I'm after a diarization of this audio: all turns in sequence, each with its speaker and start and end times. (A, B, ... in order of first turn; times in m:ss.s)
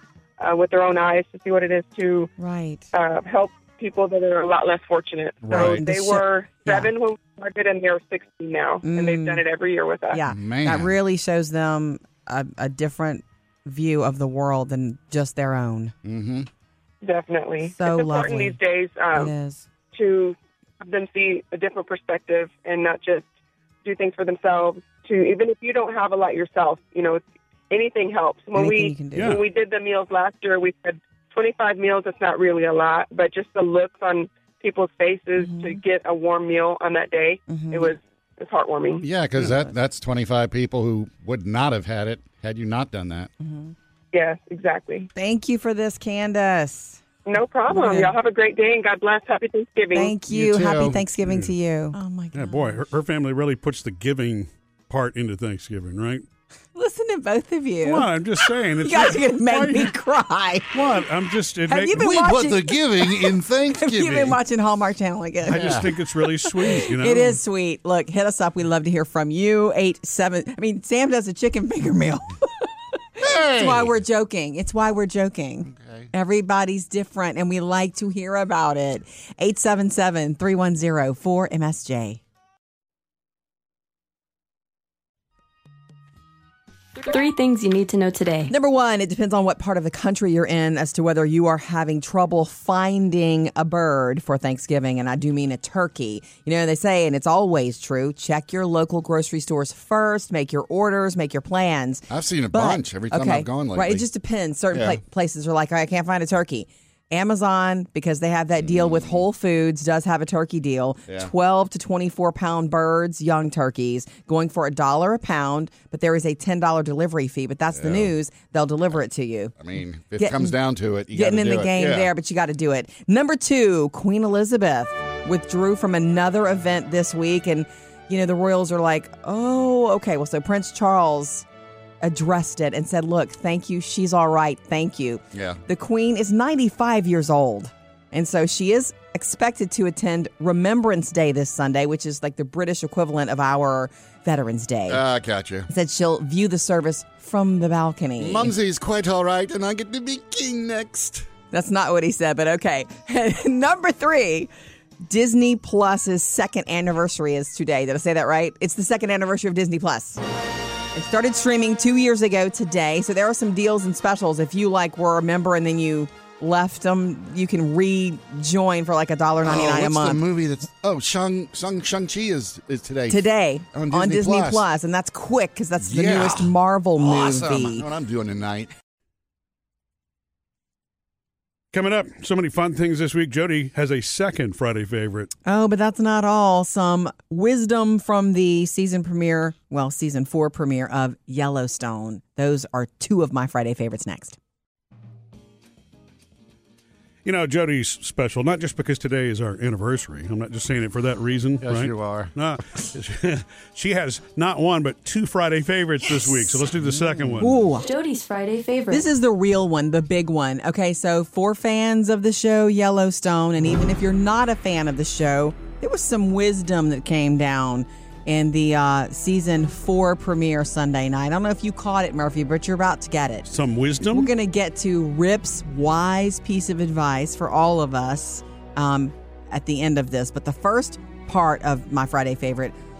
0:00.4-0:02.3 A
0:02.4-0:02.9 B
0:02.9-0:10.2 A
0:05.4-0:05.8 C
0:05.5-0:06.9 B
0:08.8-0:09.4 B
0:10.1-0:15.9 B
0:10.3-0:11.0 C
0:16.0-0:16.5 C
0:17.0-0:19.3 A
0:17.6-0:18.6 B
0:19.1-0:19.7 B
0:19.9-0:23.3 A
0:23.8-0:39.0 A
0:28.5-0:29.4 B
0:29.1-0:29.4 D
0:35.4-0:35.8 B
0:37.5-0:37.9 B
0:39.0-0:43.3 C
0:43.4-0:43.7 B
0:44.1-0:45.1 A
0:45.1-0:47.0 B
0:47.2-0:50.2 A
0:47.7-0:48.1 B
0:49.9-0:52.8 B
0:50.3-0:51.0 C
0:51.2-0:51.5 D
0:52.3-0:56.2 D
0:56.7-0:58.2 B
0:57.8-0:59.9 D
0:58.8-1:00.7 B
1:00.7-1:02.0 D
1:01.7-1:12.6 B
1:01.9-1:04.4 C
1:05.4-1:07.4 D
1:05.5-1:05.9 C
1:13.2-1:22.2 B
1:13.2-1:14.0 C
1:15.6-1:16.1 C
1:27.0-1:28.5 E
1:28.5-1:59.6 B
1:42.1-1:44.1 C
1:44.7-1:45.0 C
1:48.6-1:49.2 C
1:57.7-1:58.1 C
1:59.6-2:02.1 C
2:00.2-2:00.5 B
2:01.1-2:11.4 B
2:12.0-2:25.0 B
2:15.3-2:15.6 C
2:24.9-2:25.7 C
2:25.7-2:28.5 B
2:28.2-2:31.3 C
2:31.5-2:34.5 B
2:35.1-2:40.2 B
2:40.9-2:50.2 B
2:49.4-2:54.7 C
2:53.1-2:57.8 B
2:55.8-2:58.7 C
3:01.7-3:05.3 D
3:05.4-3:14.4 B
3:17.2-3:27.6 D
3:21.6-3:22.3 C
3:26.8-3:27.4 C
3:27.4-3:27.9 B
3:27.8-3:29.1 E
3:28.9-3:43.5 B
3:43.5-3:44.3 D
3:44.1-3:52.7 B